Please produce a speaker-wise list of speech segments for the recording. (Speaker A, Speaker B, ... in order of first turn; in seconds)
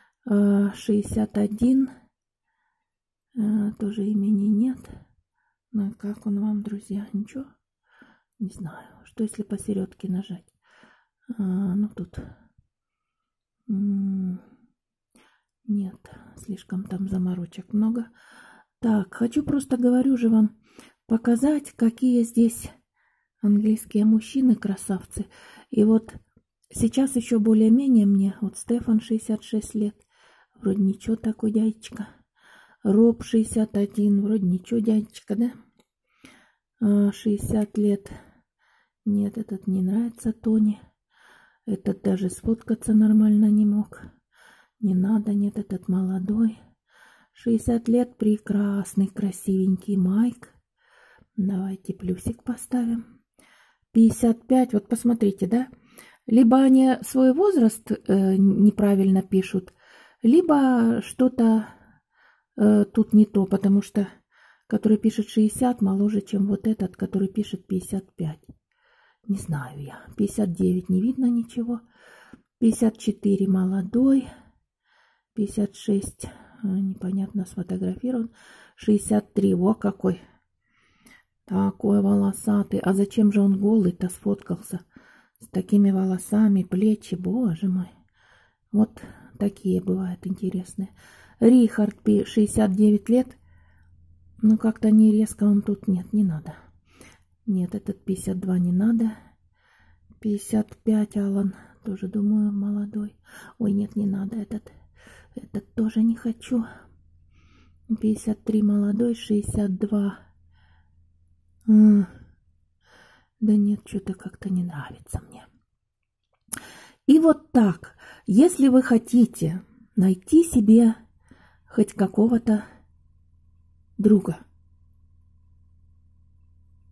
Speaker A: 0.3-1.9, 3.3-5.0, 5.7-7.5, 8.4-10.5, 11.3-12.2, 13.7-14.4, 15.7-18.1, 18.8-20.5, 21.1-22.7, 23.4-26.2, 26.7-30.0, 30.6-32.1, 32.8-35.5, 36.8-38.1, 39.0-40.8, 41.7-44.1, 44.8-46.6, 47.3-50.5, 51.4-53.0, 53.9-55.7, 56.3-61.8, 62.6-64.1, 64.7-68.5, 69.3-71.8, 72.6-74.3, 75.3-80.2, 81.5-84.8, 85.4-87.9, 88.7-93.4, 94.4-96.6, 97.5-99.2, 100.2-104.7, 105.3-106.7, 107.9-110.2, 111.7-112.1, 113.4-115.5, 117.1-121.0, 121.7-122.6, 124.0-124.4